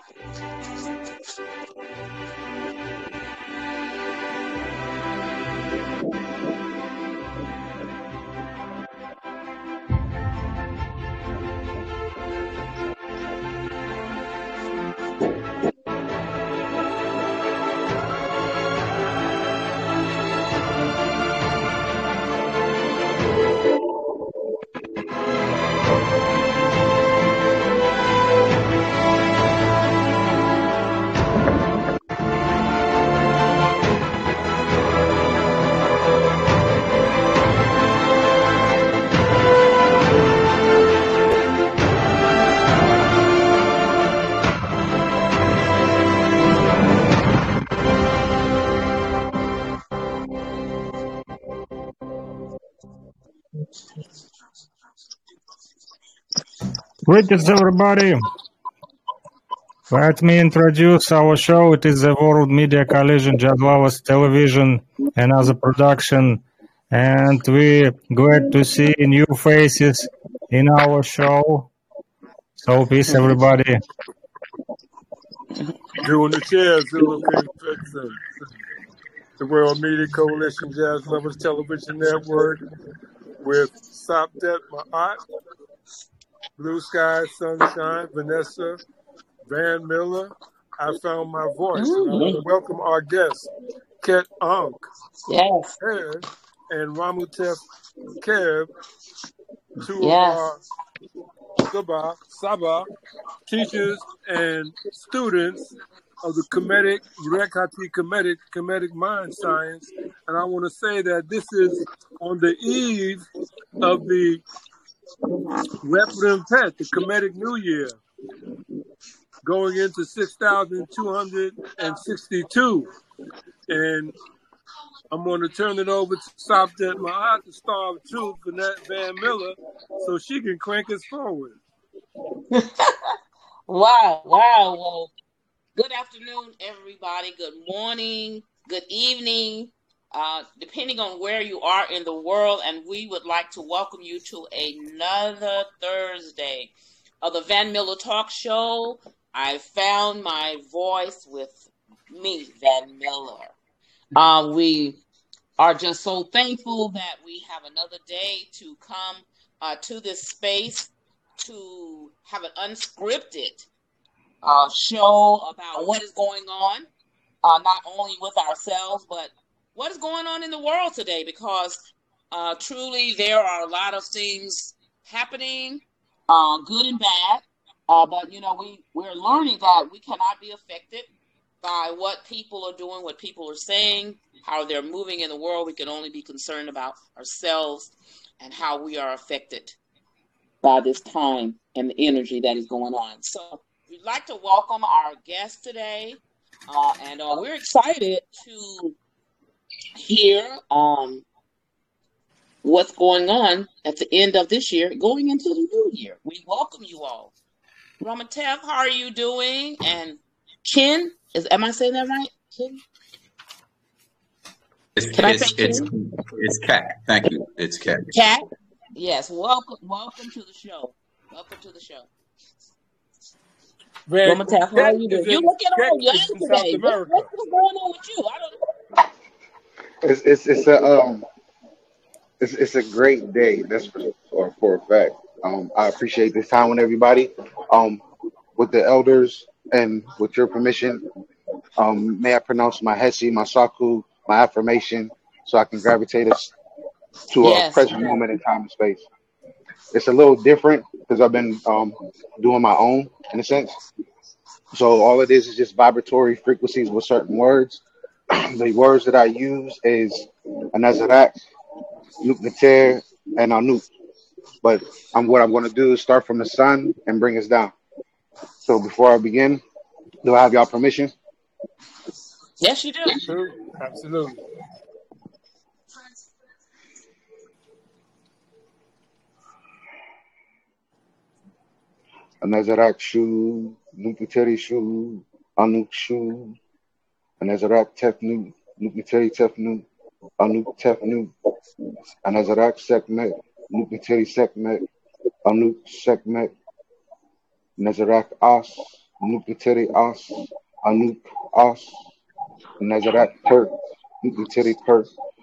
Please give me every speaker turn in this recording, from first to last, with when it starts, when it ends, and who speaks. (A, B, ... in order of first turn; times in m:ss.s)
0:57.0-0:58.3 A
0:59.9-1:11.7 A
1:12.6-1:13.8 A
1:16.0-1:18.4 B
1:19.4-1:22.6 B
1:23.4-1:25.2 B
1:26.6-1:28.8 B
1:29.4-1:33.5 B
1:31.8-1:32.4 C
1:34.0-1:34.8 B
1:35.3-1:35.8 C
1:35.8-1:37.6 B
1:38.2-1:38.7 B
1:39.8-1:40.6 B
1:40.0-1:40.4 C
1:41.7-1:42.9 B
1:43.5-1:45.6 B
1:46.2-1:53.2 B
1:53.8-1:54.4 B
1:55.8-1:58.0 B
1:59.4-2:02.9 B
2:03.7-2:04.1 B
2:05.1-2:11.6 B
2:12.5-2:13.0 C
2:13.7-2:15.1 C
2:15.8-2:33.5 C
2:34.1-2:35.0 C
2:35.6-2:43.6 C
2:44.4-2:46.9 C
2:47.4-3:01.1 C
3:01.6-3:09.8 C
3:10.6-3:19.0 C
3:20.0-3:21.2 C
3:22.6-3:27.3 C
3:28.0-3:32.8 C
3:35.0-3:38.1 D
3:35.1-3:35.9 C
3:38.1-3:42.1 C
3:44.1-3:47.3 B
3:44.2-3:48.6 C
3:50.0-3:51.2 E
3:52.4-3:58.0 E
3:58.6-4:01.0 E
4:01.8-4:06.5 E
4:07.3-4:09.0 E
4:07.4-4:08.2 C
4:09.9-4:13.8 E
4:14.7-4:21.4 E
4:22.2-4:23.8 E
4:24.6-4:27.7 E
4:28.6-4:29.6 E
4:30.2-4:31.1 E
4:32.6-4:33.2 C
4:33.2-4:34.4 B
4:42.4-4:46.6 E
4:47.4-4:49.8 E
4:50.4-4:51.3 E
4:52.2-4:54.8 E
4:55.4-4:56.5 E
4:57.8-5:02.0 E
5:02.8-5:05.1 E